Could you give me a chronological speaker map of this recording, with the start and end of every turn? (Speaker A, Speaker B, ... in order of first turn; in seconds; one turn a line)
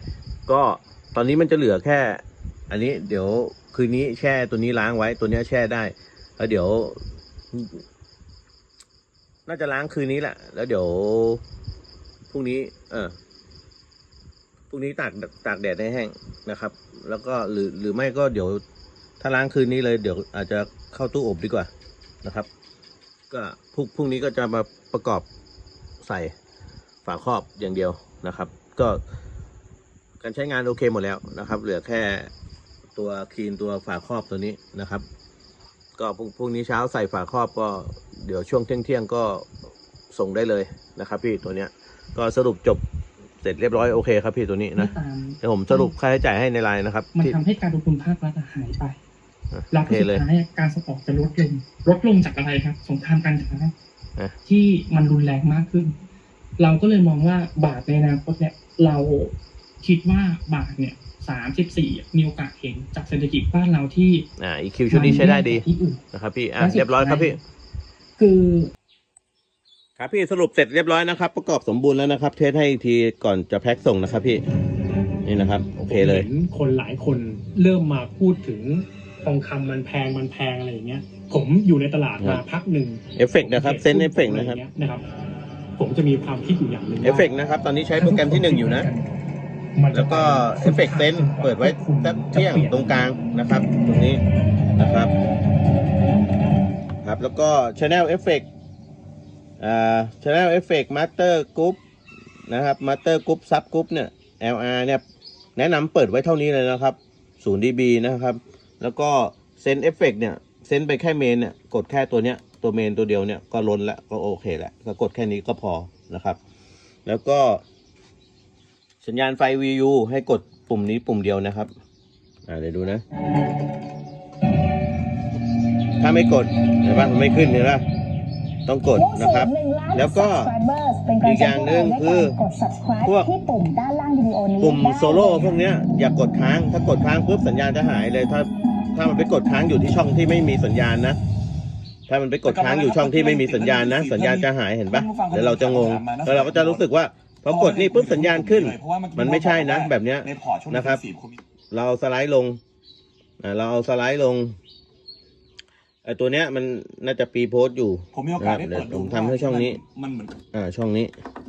Speaker A: 0.5-7.0
Speaker A: 7.5-7.8
Speaker A: 9.5-11.4
Speaker A: 12.3-13.2
Speaker A: 14.7-18.6
Speaker A: 19.2-21.7
Speaker A: 22.2-22.5
Speaker A: 23.3-25.3
Speaker A: 26.0-26.3
Speaker A: 27.1-29.0
Speaker A: 30.2-32.3
Speaker A: 33.0-35.0
Speaker A: 36.0-39.5
Speaker A: 40.1-42.8
Speaker A: 43.4-47.4
Speaker B: 44.8-45.9
Speaker B: 47.1-49.0
Speaker A: 49.5-50.2
Speaker B: 49.7-53.7
Speaker B: 54.5-56.0
Speaker B: 56.6-64.3
Speaker A: 64.4-67.4
Speaker B: 64.9-66.0
Speaker B: 66.6-67.4
Speaker B: 68.2-68.7
Speaker A: 70.0-74.4
Speaker A: 75.2-76.3
Speaker C: 75.8-85.0
Speaker A: 83.2-84.6
Speaker C: 85.8-87.3
Speaker A: 87.0-88.9
Speaker C: 88.0-89.1
Speaker C: 89.8-92.9
Speaker A: 89.9-94.2
Speaker A: 94.8-95.1
Speaker A: 97.0-98.5
Speaker A: 99.6-101.8
Speaker A: 102.5-105.0
Speaker A: 105.6-116.4
Speaker A: 117.1-117.6
Speaker A: 119.0-121.7
Speaker A: 122.5-123.0
Speaker A: 126.0-127.8
Speaker A: 128.7-130.5
Speaker D: 128.9-135.6
Speaker A: 131.2-132.4
Speaker A: 133.0-133.3
Speaker A: 134.6-141.2
Speaker A: 142.1-151.0
Speaker E: 142.4-146.8
Speaker E: 147.5-151.4
Speaker A: 151.7-152.6
Speaker A: 153.4-154.6
Speaker A: 156.0-159.8
Speaker E: 158.2-160.4
Speaker C: 159.5-160.0
Speaker A: 160.5-161.1